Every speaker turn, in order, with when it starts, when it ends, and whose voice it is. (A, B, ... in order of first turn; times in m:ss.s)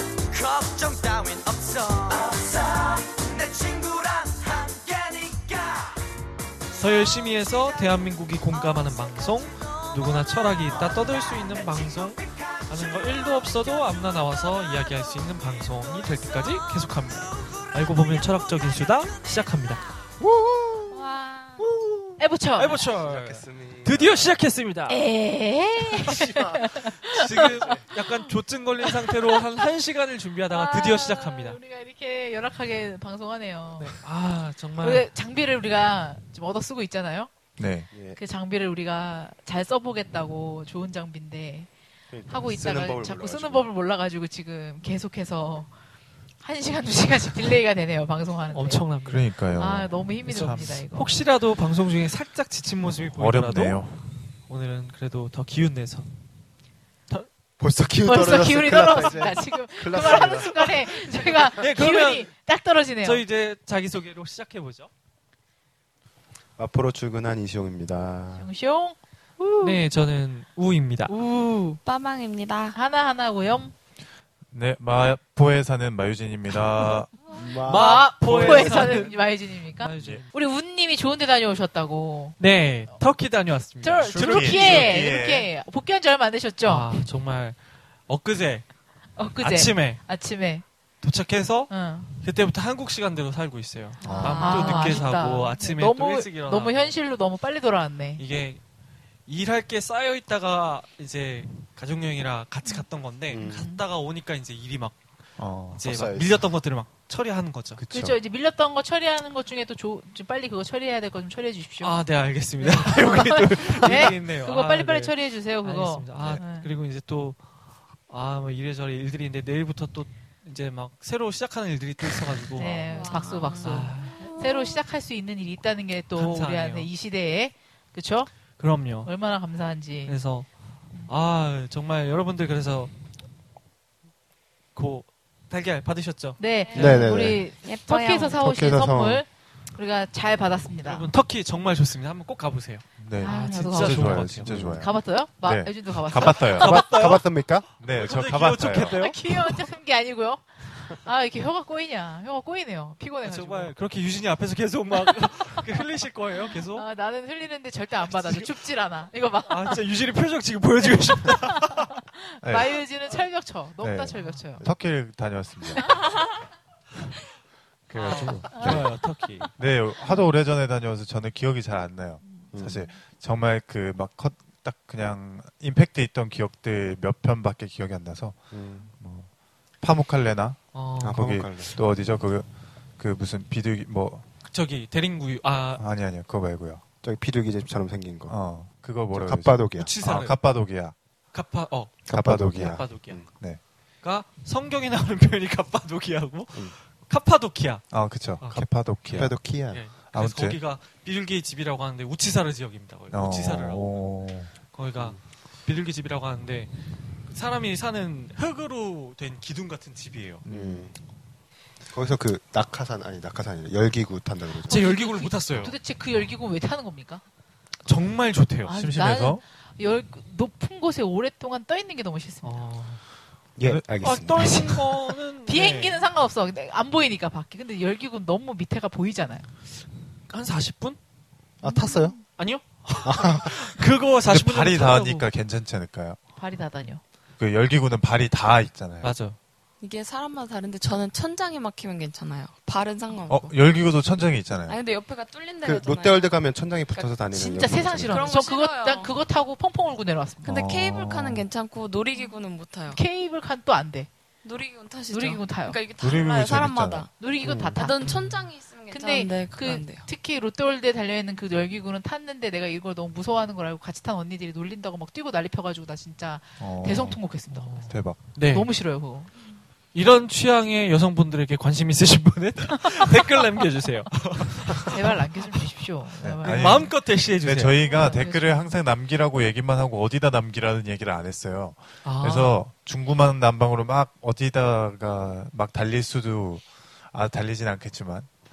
0:00.3-0:02.6 A
0:03.3-0:05.6 A
0:06.7-0:19.8 B
0:20.2-0:20.9 C
0:20.9-0:21.6 D
0:21.6-0:25.0 B
0:22.2-0:22.8 E
0:23.0-0:24.4 C
0:24.9-0:28.1 E
0:25.9-0:27.8 C
0:26.9-0:31.6 B
0:28.8-0:29.6 E
0:30.5-0:34.0 E
0:33.8-0:35.1 B
0:34.8-0:37.3 E
0:37.6-0:37.9 F
0:37.9-0:38.2 C
0:38.1-0:41.7 E
0:42.1-0:43.7 C
0:42.3-0:45.7 E
0:46.4-0:48.8 E
0:48.5-0:49.2 B
0:49.0-0:50.8 F
0:49.6-0:51.1 E
0:50.3-0:53.8 B
0:52.9-0:54.0 F
0:54.4-0:56.1 B
0:57.6-1:00.8 C
0:58.0-1:03.2 E
0:58.8-0:59.3 B
1:00.0-1:00.7 B
1:01.2-1:02.3 B
1:03.0-1:04.9 B
1:06.6-1:08.5 C
1:08.4-1:09.8 E
1:09.6-1:11.1 B
1:11.1-1:11.8 E
1:11.8-1:12.8 D
1:12.7-1:13.7 E
1:14.5-1:17.1 F
1:17.3-1:19.0 C
1:17.5-1:20.3 B
1:17.6-1:22.4 E
1:22.4-1:25.1 B
1:23.8-1:26.9 E
1:24.0-1:25.5 F
1:26.6-1:27.6 B
1:28.1-1:28.6 B
1:29.2-1:30.6 E
1:29.4-1:30.0 B
1:31.0-1:36.9 B
1:31.7-1:32.1 E
1:34.0-1:35.0 D
1:34.0-1:34.4 F
1:34.4-1:38.2 E
1:38.2-1:38.6 B
1:39.3-1:45.0 B
1:43.3-1:43.6 C
1:43.4-1:43.8 E
1:45.4-1:45.8 F
1:45.7-1:47.8 B
1:45.8-1:46.4 C
1:47.8-1:48.2 F
1:47.9-1:52.0 E
1:51.8-1:57.4 B
1:52.6-1:56.7 E
1:56.2-1:56.4 F
1:58.1-2:04.3 B
2:02.5-2:08.3 E
2:02.9-2:04.8 D
2:06.1-2:06.9 B
2:08.6-2:09.1 B
2:09.0-2:10.1 E
2:10.1-2:10.5 B
2:11.0-2:12.9 B
2:14.7-2:17.1 B
2:16.4-2:21.1 E
2:16.7-2:17.0 D
2:16.8-2:17.4 C
2:17.6-2:18.4 D
2:18.4-2:19.2 C
2:20.8-2:24.5 B
2:23.0-2:26.8 F
2:23.2-2:26.7 E
2:24.4-2:24.9 C
2:26.5-2:29.2 B
2:26.6-2:27.7 C
2:27.8-2:29.0 F
2:28.9-2:33.7 E
2:33.2-2:36.8 B
2:36.5-2:39.8 E
2:38.1-2:38.6 B
2:39.5-2:41.9 B
2:40.8-2:44.6 E
2:42.4-2:42.8 F
2:43.8-2:46.0 F
2:47.9-2:48.9 F
2:47.9-2:49.5 B
2:48.5-2:48.8 E
2:49.6-2:59.3 F
2:52.2-2:52.9 E
2:52.5-2:52.8 C
2:58.5-2:58.9 C
2:59.8-3:02.5 F
3:00.7-3:01.3 B
3:01.0-3:01.8 C
3:03.0-3:04.3 F
3:04.5-3:05.8 B
3:05.8-3:06.8 F
3:07.0-3:08.4 C
3:08.3-3:10.9 F
3:09.1-3:09.9 C
3:09.8-3:10.4 B
3:11.3-3:13.2 B
3:12.1-3:13.3 C
3:12.1-3:13.6 F
3:14.0-3:17.8 B
3:17.9-3:19.4 F
3:18.4-3:23.9 B
3:19.1-3:19.8 C
3:20.1-3:20.6 F
3:23.1-3:24.5 F
3:24.7-3:26.7 B
3:27.3-3:30.4 B
3:30.5-3:30.8 F
3:30.5-3:31.0 C
3:31.9-3:34.8 C
3:34.6-3:35.8 B
3:34.7-3:37.2 E
3:37.8-3:38.7 B
3:38.6-3:42.5 E
3:38.7-3:39.4 F
3:42.4-3:43.0 B
3:43.6-3:45.0 C
3:43.6-3:44.2 F
3:44.0-3:46.0 B
3:45.4-3:49.5 E
3:50.3-3:51.0 B
3:51.6-3:52.2 E
3:51.6-3:52.2 C
3:52.4-3:55.3 B
3:53.0-3:53.8 C
3:54.3-3:56.2 F
3:56.4-3:57.0 E
3:57.4-3:59.1 F
3:59.0-3:59.4 B
3:59.8-4:03.5 D
4:03.3-4:04.8 F
4:04.7-4:07.1 D
4:05.6-4:08.3 C
4:07.3-4:10.5 E
4:08.0-4:09.1 D
4:10.4-4:11.4 F
4:10.4-4:13.0 D
4:12.9-4:14.1 E
4:14.4-4:20.0 D
4:15.1-4:15.8 E
4:16.0-4:17.0 F
4:17.2-4:18.0 E
4:17.4-4:17.8 C
4:18.0-4:18.5 B
4:18.9-4:27.7 E
4:26.6-4:27.2 F
4:27.5-4:28.7 B
4:27.8-4:28.2 F
4:28.5-4:29.3 E
4:29.9-4:35.5 B
4:34.8-4:36.9 E
4:36.2-4:48.3 F
4:36.4-4:38.0 B
4:37.8-4:38.8 E
4:42.0-4:42.6 B